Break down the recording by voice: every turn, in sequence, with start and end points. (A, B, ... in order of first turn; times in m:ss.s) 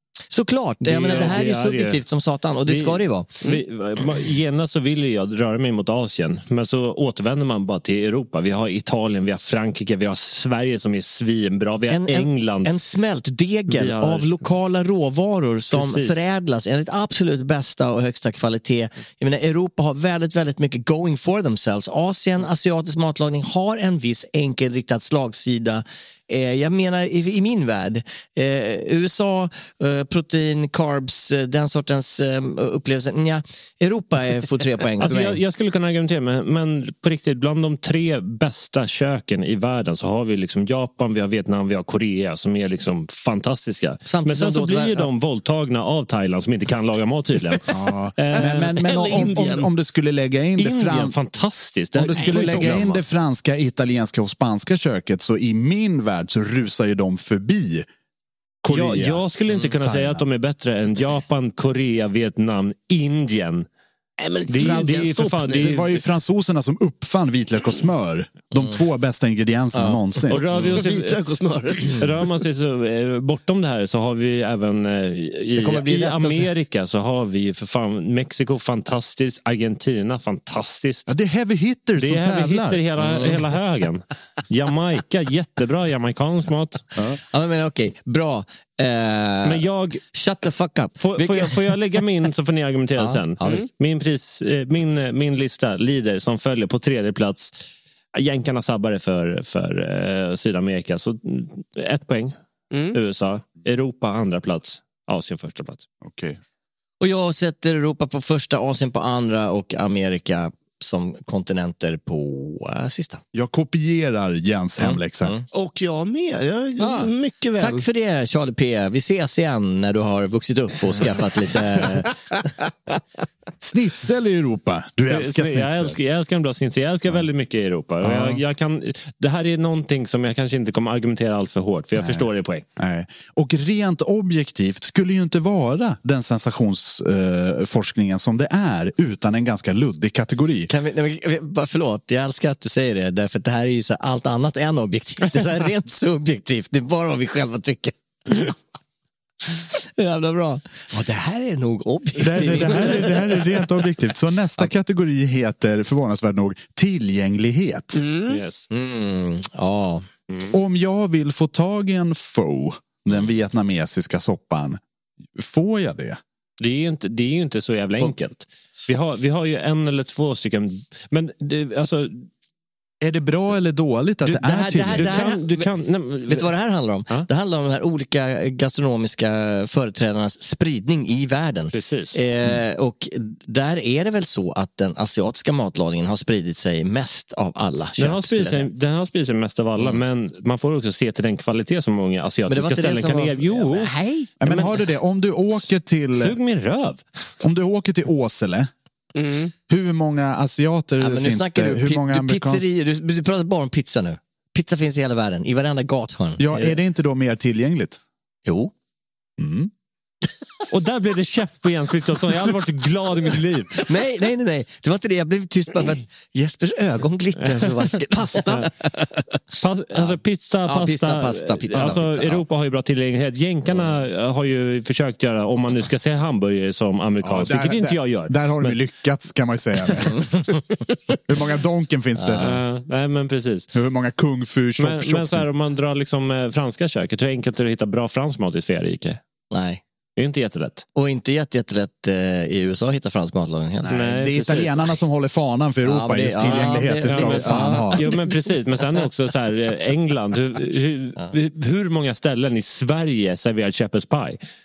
0:00.3-0:03.3 A
0:00.8-0:02.0 B
0:02.6-0:12.7 B
0:11.9-0:35.4 A
0:13.7-0:14.4 B
0:15.7-0:16.2 B
0:35.0-0:47.6 B
0:44.0-0:45.1 A
0:47.7-0:51.2 C
0:48.2-0:49.2 B
0:48.4-0:49.7 D
0:50.6-0:53.0 B
0:52.0-0:57.9 C
0:58.6-1:00.2 C
0:58.7-1:03.7 B
1:04.2-1:05.8 D
1:04.5-1:06.0 B
1:05.6-1:10.4 C
1:09.7-1:10.8 A
1:10.3-1:11.2 B
1:10.6-1:12.0 D
1:11.9-1:21.1 B
1:15.6-1:16.5 A
1:21.1-1:22.8 C
1:22.0-1:27.0 B
1:23.0-1:23.4 A
1:27.2-1:29.6 A
1:29.4-1:30.0 B
1:30.1-1:31.6 A
1:31.0-1:37.6 B
1:33.0-1:33.6 A
1:38.1-1:42.4 B
1:42.7-1:43.0 D
1:42.9-1:45.8 B
1:46.0-1:46.4 C
1:47.0-1:53.2 A
1:53.3-1:55.3 C
1:54.8-1:55.4 A
1:55.5-1:57.8 D
1:56.8-2:02.1 A
2:03.6-2:06.0 C
2:05.1-2:12.6 B
2:08.0-2:08.4 C
2:12.0-2:12.2 C
2:12.8-2:20.7 C
2:20.7-2:28.5 A
2:30.0-2:33.4 A
2:32.2-2:38.0 C
2:37.9-2:38.4 D
2:38.3-2:38.7 B
2:38.7-2:40.0 A
2:40.3-2:40.5 B
2:40.5-2:44.8 C
2:45.4-2:46.2 C
2:46.6-2:52.3 B
2:53.0-2:55.3 C
2:54.3-2:55.7 A
2:54.5-2:56.5 B
2:56.2-3:08.7 A
3:01.7-3:02.2 B
3:08.0-3:13.9 B
3:12.5-3:14.7 A
3:14.4-3:16.4 C
3:16.2-3:17.3 B
3:17.4-3:18.7 C
3:19.2-3:19.5 D
3:19.7-3:22.7 C
3:21.0-3:26.8 A
3:26.4-3:28.0 C
3:28.5-3:28.7 A
3:29.4-3:29.7 C
3:30.7-3:33.9 B
3:33.8-3:38.5 A
3:37.4-3:37.7 B
3:38.1-3:38.7 D
3:39.6-3:48.8 B
3:39.9-3:42.4 A
3:47.2-3:50.5 C
3:51.3-3:52.6 C
3:52.2-3:52.5 A
3:52.4-3:53.7 B
3:53.7-3:55.5 C
3:54.8-3:59.2 B
3:59.5-3:59.8 A
4:00.2-4:00.8 B
4:01.0-4:04.0 A
4:03.8-4:08.0 C
4:03.9-4:04.8 B
4:05.8-4:08.2 A
4:06.4-4:14.4 B